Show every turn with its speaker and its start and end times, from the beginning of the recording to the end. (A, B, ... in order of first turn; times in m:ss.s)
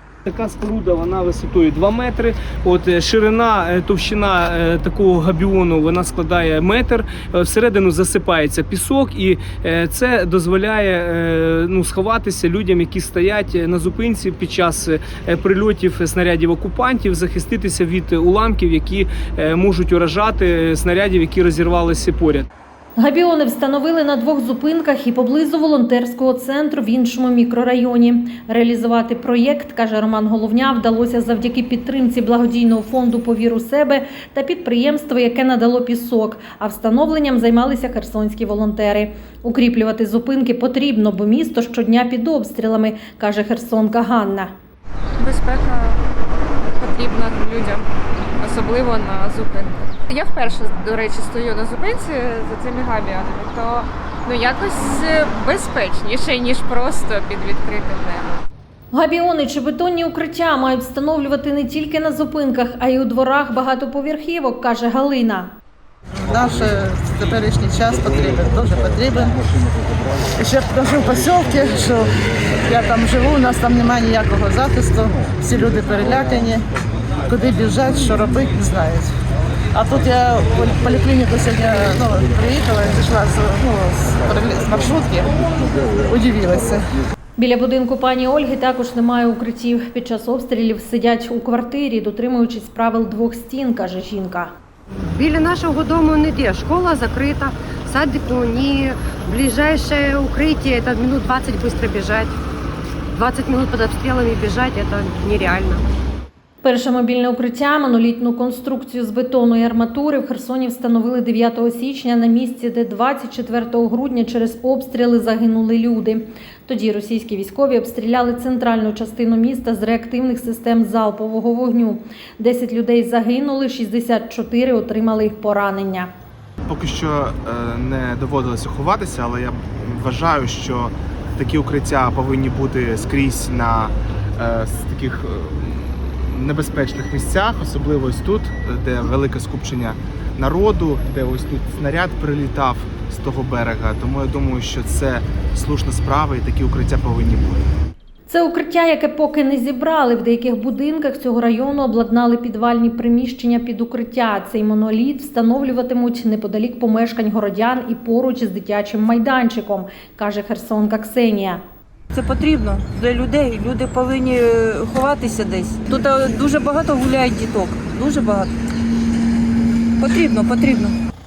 0:00.3-0:22.5 A
0:23.0-0:44.5 B
0:45.2-0:46.0 C
0:46.8-0:47.9 C
0:48.4-0:58.4 C
0:58.9-1:05.5 B
1:06.2-1:09.4 D
1:10.4-1:16.7 D
1:17.3-1:19.1 D
1:19.7-1:25.3 D
1:26.1-1:26.9 D
1:27.4-1:34.5 B
1:35.0-1:42.4 E
1:43.1-1:45.8 E
1:46.6-2:06.1 B
2:06.7-2:27.7 F
2:28.3-2:41.6 B
2:42.1-2:48.5 G
2:50.0-2:51.0 G